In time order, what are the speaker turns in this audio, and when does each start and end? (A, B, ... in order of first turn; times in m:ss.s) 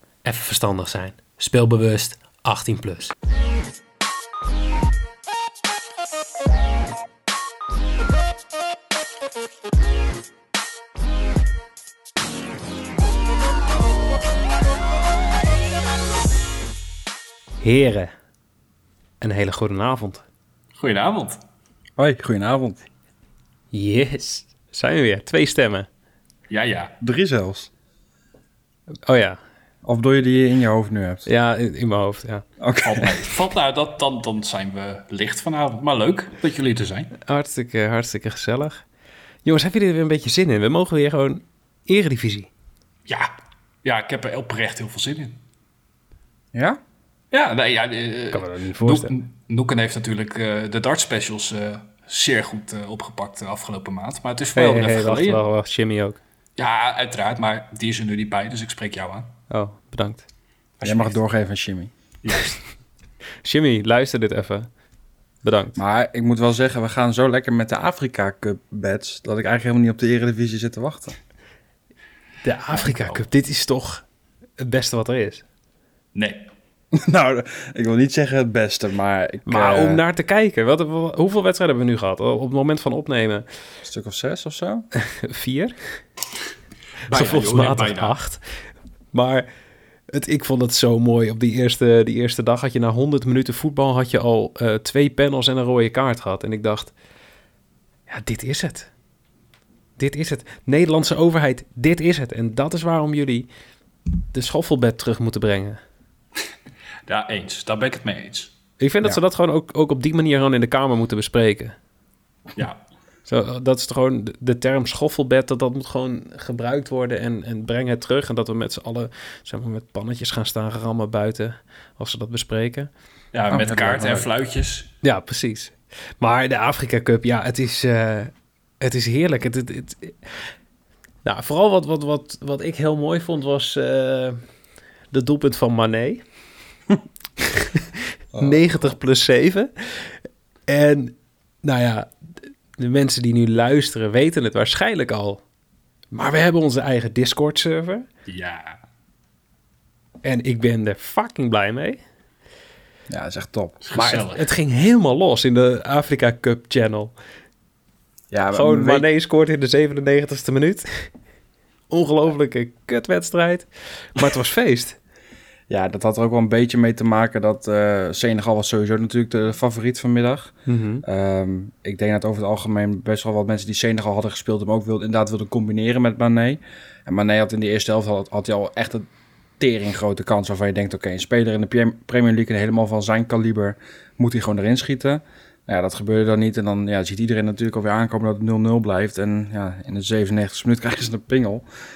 0:00.2-0:03.1 A
0:17.6-0:18.1 A
0:19.2-0:20.2 A
0:20.8-0:21.4 B
0:22.0-0:22.8 C
0:23.7-0:25.9 A
0:26.5-0:26.9 B
0:27.0-0:27.7 C
0:29.0-0:29.4 A
0:29.8-0:31.3 C
0:31.2-0:32.4 A
0:32.6-0:33.2 C
0:32.8-0:37.1 B
0:37.2-0:38.8 A
0:39.4-0:42.5 A
0:43.1-0:43.3 B
0:43.8-0:45.4 B
0:46.5-0:46.8 C
0:47.3-0:55.4 B
0:48.3-0:49.1 A
0:54.5-0:56.2 A
0:56.6-0:59.3 B
0:59.5-1:00.2 A
1:00.8-1:01.2 B
1:00.8-1:01.9 C
1:02.2-1:02.6 B
1:03.4-1:04.7 A
1:05.4-1:05.8 A
1:05.8-1:11.2 C
1:12.4-1:14.0 A
1:12.7-1:13.2 B
1:14.6-1:15.4 A
1:16.1-1:16.5 B
1:17.0-1:20.0 C
1:19.4-1:23.4 A
1:23.8-1:24.9 C
1:25.0-1:25.7 A
1:27.1-1:28.2 B
1:27.1-1:28.4 A
1:29.1-1:29.5 A
1:30.1-1:36.9 A
1:38.1-1:38.9 A
1:40.0-1:43.5 A
1:44.3-1:45.8 A
1:47.1-1:48.5 B
1:48.8-1:51.7 A
1:53.3-2:02.9 A
2:03.3-2:04.9 B
2:03.5-2:04.3 C
2:05.0-2:10.2 A
2:11.2-2:14.4 A
2:15.1-2:16.2 A
2:17.4-2:20.2 A
2:18.3-2:18.8 C
2:20.7-2:22.1 A
2:22.8-2:25.4 A
2:26.1-2:28.0 A
2:28.3-2:28.8 B
2:30.2-2:32.0 A
2:33.1-2:33.8 C
2:33.8-2:34.4 B
2:33.9-2:37.1 A
2:38.3-2:39.0 C
2:38.5-2:41.1 A
2:41.9-2:45.0 A
2:45.7-2:59.1 C
2:50.6-2:51.0 A
2:59.6-3:11.6 C